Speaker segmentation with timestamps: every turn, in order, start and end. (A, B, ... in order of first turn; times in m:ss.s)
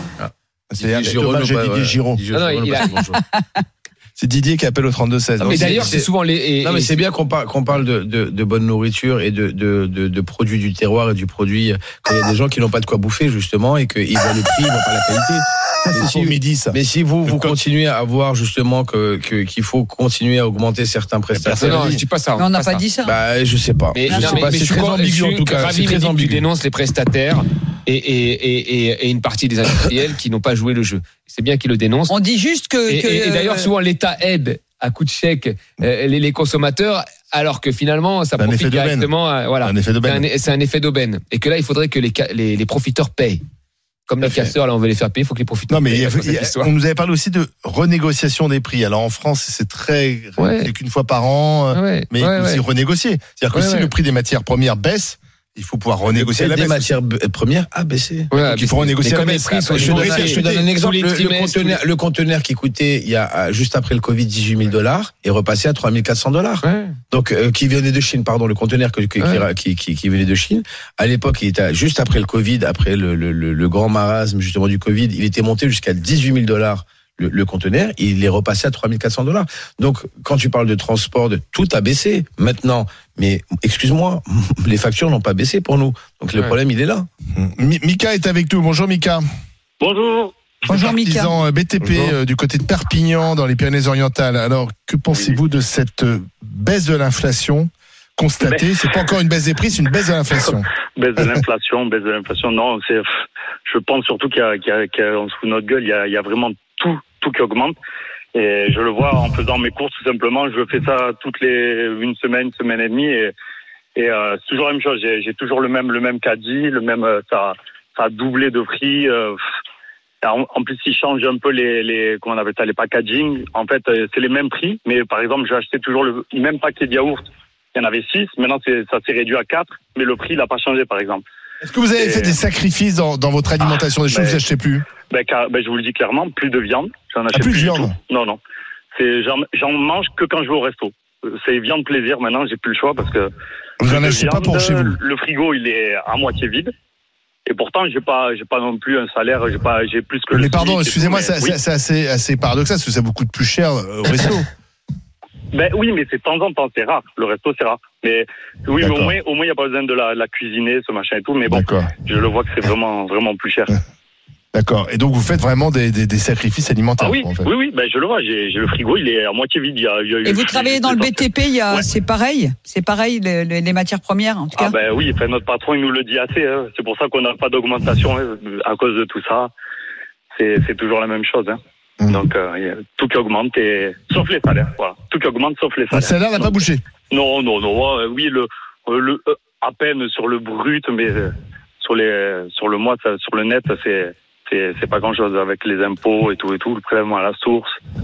0:00.2-0:03.2 A
0:00.7-0:02.2 B
0:02.3-0:03.1 C
0:02.8-0:03.4 D
0:04.2-0:06.0 B
0:05.4-0:06.1 A
0:05.4-0:07.0 C
0:06.6-0:21.9 A
0:15.9-0:17.6 B
0:21.3-0:22.0 B
0:21.5-0:22.8 C
0:22.4-0:23.2 D
0:23.0-0:26.5 A
0:23.9-0:32.2 C
0:24.1-0:24.5 D
0:32.1-0:33.7 D
0:32.9-0:43.4 C
0:38.4-0:40.3 B
0:44.1-0:46.7 C
0:45.7-0:56.9 B
0:50.4-0:50.7 C
0:51.7-0:52.6 C
0:53.5-0:53.9 C
0:56.1-0:58.4 A
0:58.3-1:01.8 C
0:58.4-1:00.5 B
0:59.1-1:27.1 A
1:06.6-1:07.0 C
1:09.2-1:09.5 C
1:27.4-1:29.2 B
1:29.8-1:30.3 E
1:30.7-1:40.6 B
1:30.7-1:31.3 D
1:31.8-1:32.2 C
1:38.4-1:39.0 E
1:40.4-1:43.0 E
1:43.7-1:47.8 E
1:48.3-1:53.3 E
1:54.0-1:59.4 E
2:00.2-2:07.2 E
2:07.8-2:11.2 E
2:11.6-2:14.8 B
2:12.0-2:12.4 E
2:14.1-2:14.4 E
2:15.1-2:18.4 E
2:17.3-2:17.9 B
2:18.9-2:23.3 E
2:23.8-2:25.0 B
2:23.8-2:26.7 E
2:27.5-2:31.6 E
2:30.3-2:34.5 B
2:35.5-2:43.8 E
2:38.8-2:39.2 B
2:41.5-2:41.9 B
2:44.5-2:47.5 B
2:47.0-2:51.8 E
2:50.2-2:54.8 D
2:54.6-2:59.5 E
3:00.4-3:01.6 E
3:02.1-3:06.6 E
3:05.9-3:06.8 B
3:07.1-3:17.8 E